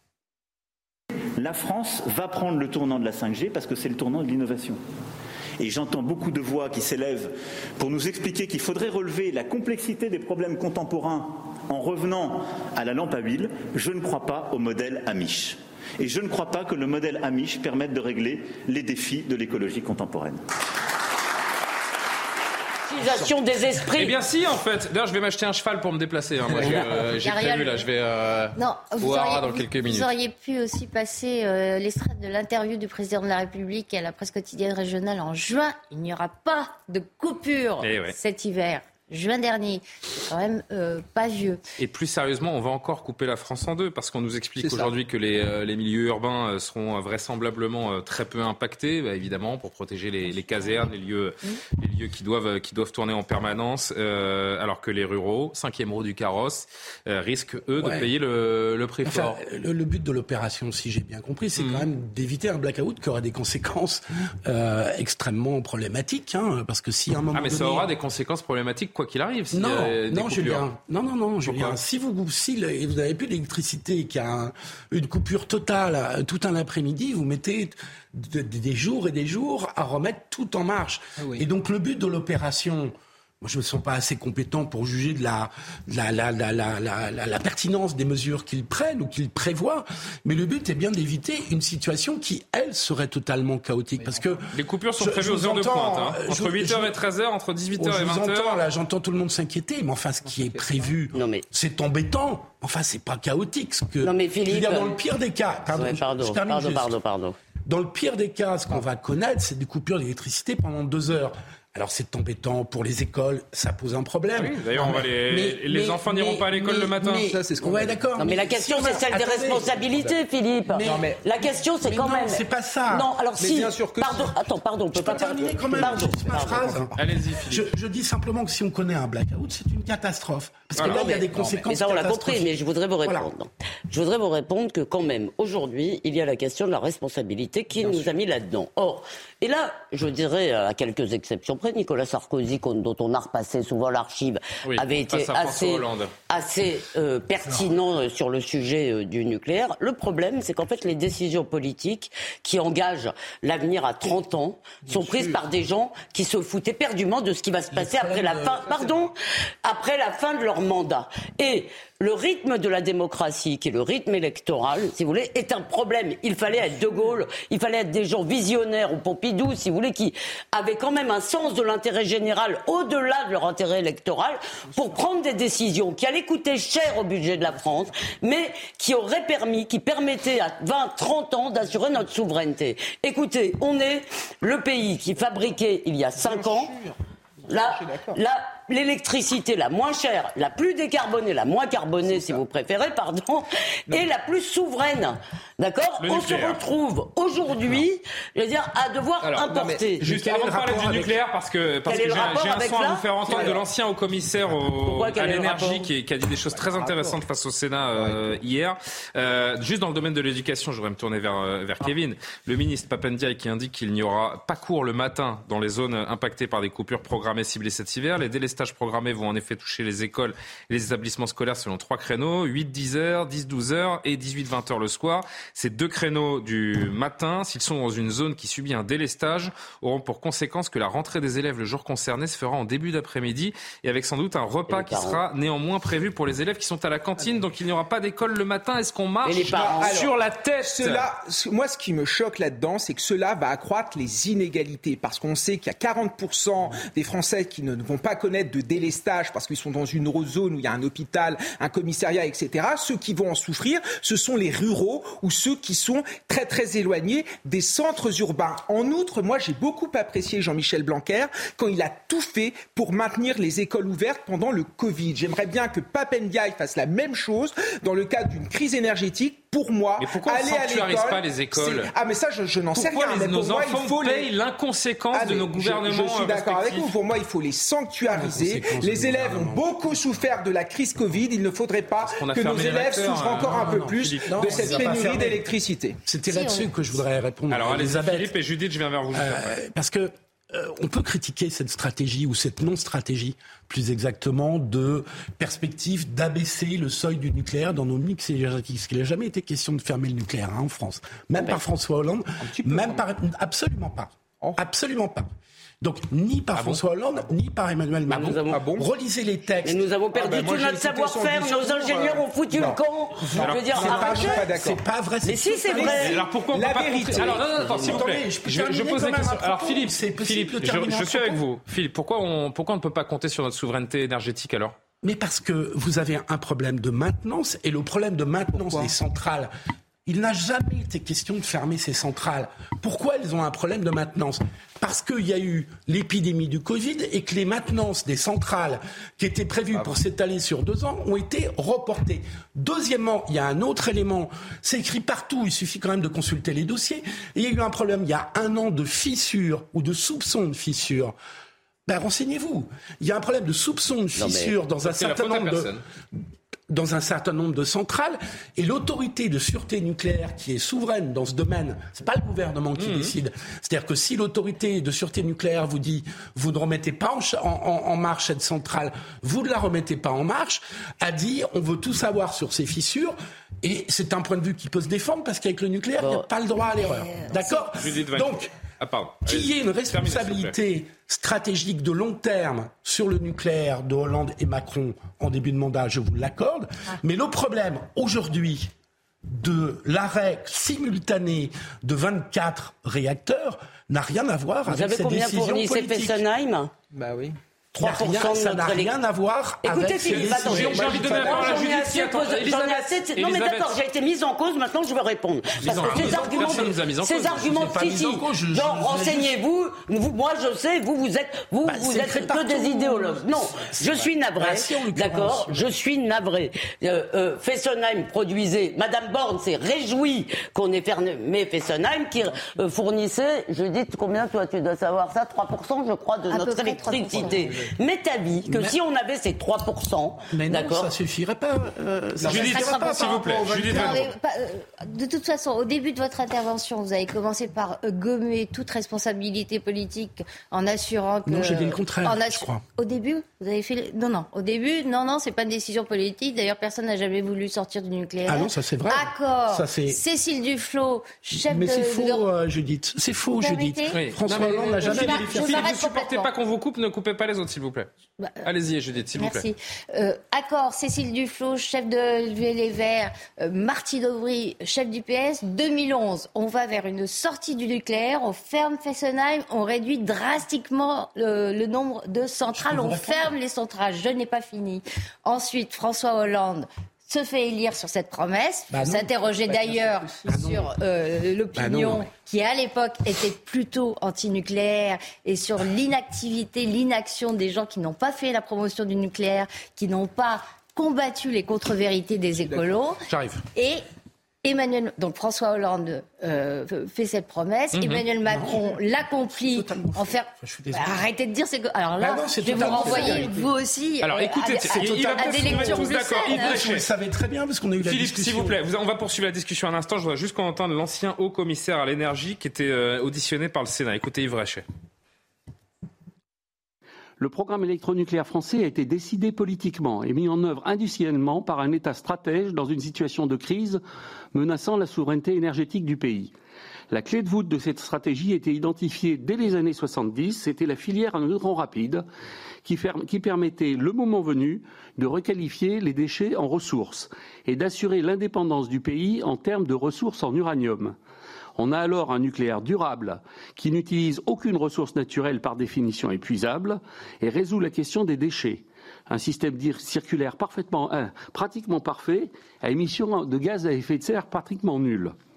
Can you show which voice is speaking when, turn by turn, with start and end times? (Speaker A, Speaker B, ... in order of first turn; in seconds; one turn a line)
Speaker A: 1.4-4.8
Speaker A: 5.6-20.4
Speaker B: 22.9-24.2
Speaker C: 23.9-30.1
Speaker D: 26.7-27.8
Speaker D: 28.5-41.6
Speaker C: 37.8-38.1
Speaker C: 41.8-59.4
Speaker E: 44.6-44.9
Speaker F: 57.8-58.1
Speaker F: 59.0-67.9
Speaker C: 61.6-61.9
Speaker C: 67.3-70.6
Speaker F: 69.5-94.4
Speaker C: 71.4-71.8
Speaker E: 94.0-94.3
Speaker C: 94.5-98.6
Speaker F: 95.0-96.9
Speaker F: 97.8-107.0
Speaker B: 101.1-101.5
Speaker B: 104.0-105.0
Speaker B: 105.7-107.3
Speaker F: 107.7-119.8
Speaker C: 114.3-117.3
Speaker E: 117.2-118.0
Speaker B: 118.2-126.8
Speaker E: 119.8-120.1
Speaker F: 120.7-121.1
Speaker E: 120.8-121.2
Speaker F: 121.8-123.1
Speaker E: 123.4-124.5
Speaker F: 124.9-126.9
Speaker E: 125.8-126.9
Speaker C: 127.0-127.7
Speaker F: 127.5-133.3
Speaker C: 130.8-131.1
Speaker B: 130.8-186.7
Speaker F: 137.8-138.1
Speaker C: 144.6-146.1
Speaker F: 154.9-155.4
Speaker F: 157.7-159.0
Speaker E: 186.2-188.2
Speaker B: 187.5-200.0
Speaker E: 192.1-192.4
Speaker C: 196.0-196.6
Speaker C: 199.2-241.1
Speaker E: 199.5-199.9
Speaker F: 200.0-201.1
Speaker B: 201.9-203.0
Speaker E: 203.3-203.6
Speaker B: 204.8-205.9
Speaker E: 206.5-207.2
Speaker E: 207.9-208.2
Speaker B: 234.7-235.2
Speaker B: 239.2-239.9
Speaker E: 239.4-274.3
Speaker C: 270.0-271.9
Speaker C: 272.7-276.9
Speaker E: 275.1-286.0
Speaker F: 278.1-279.6
Speaker C: 282.0-284.9
Speaker F: 283.4-285.4
Speaker F: 286.1-288.3
Speaker D: 286.3-286.7
Speaker C: 287.5-289.5
Speaker F: 289.1-305.3
Speaker E: 302.4-303.1
Speaker F: 305.8-309.8
Speaker C: 306.5-306.8
Speaker B: 308.1-308.6
Speaker E: 308.5-308.9
Speaker B: 309.6-314.5
Speaker E: 310.1-312.2
Speaker F: 312.5-316.1
Speaker E: 313.2-314.8
Speaker C: 313.4-313.9
Speaker B: 315.2-316.0
Speaker E: 315.7-317.7
Speaker C: 315.8-324.8
Speaker F: 317.6-321.4
Speaker F: 325.0-329.5
Speaker E: 328.5-328.9
Speaker F: 330.0-351.1
Speaker F: 351.9-355.7
Speaker B: 354.1-354.6
Speaker C: 354.8-355.8
Speaker F: 356.7-378.5
Speaker C: 362.8-363.1
Speaker B: 376.0-376.2
Speaker C: 377.8-380.5
Speaker F: 379.2-388.7
Speaker F: 389.2-396.2
Speaker B: 394.7-396.7
Speaker E: 396.9-397.4
Speaker F: 397.7-402.6
Speaker B: 397.8-398.9
Speaker B: 399.6-430.9
Speaker C: 400.0-403.7
Speaker E: 400.8-401.7
Speaker F: 405.6-409.4
Speaker C: 405.6-407.6
Speaker F: 411.6-415.7
Speaker D: 426.3-427.4
Speaker E: 427.3-427.6
Speaker F: 428.4-428.8
Speaker F: 430.3-434.1
Speaker C: 432.2-434.1
Speaker D: 432.3-452.2
Speaker F: 441.2-442.6
Speaker F: 448.2-450.0
Speaker F: 451.3-455.7
Speaker D: 453.4-453.9
Speaker C: 453.9-457.9
Speaker D: 454.8-456.3
Speaker D: 458.2-458.4
Speaker C: 458.4-459.4
Speaker D: 459.1-493.0
Speaker F: 472.6-473.3
Speaker F: 478.7-479.1
Speaker E: 479.4-480.2
Speaker F: 480.2-480.7
Speaker F: 481.5-482.1
Speaker E: 492.4-492.8
Speaker D: 493.5-493.8
Speaker D: 494.4-506.6
Speaker C: 497.7-498.0
Speaker F: 498.2-498.8
Speaker F: 499.4-501.0
Speaker F: 502.0-503.5
Speaker E: 502.6-503.3
Speaker C: 504.0-506.9
Speaker F: 504.6-508.6
Speaker C: 507.8-514.6
Speaker G: 517.2-523.8
Speaker G: 524.3-526.3
Speaker G: 526.9-532.0
Speaker G: 532.6-541.0
Speaker G: 541.5-555.1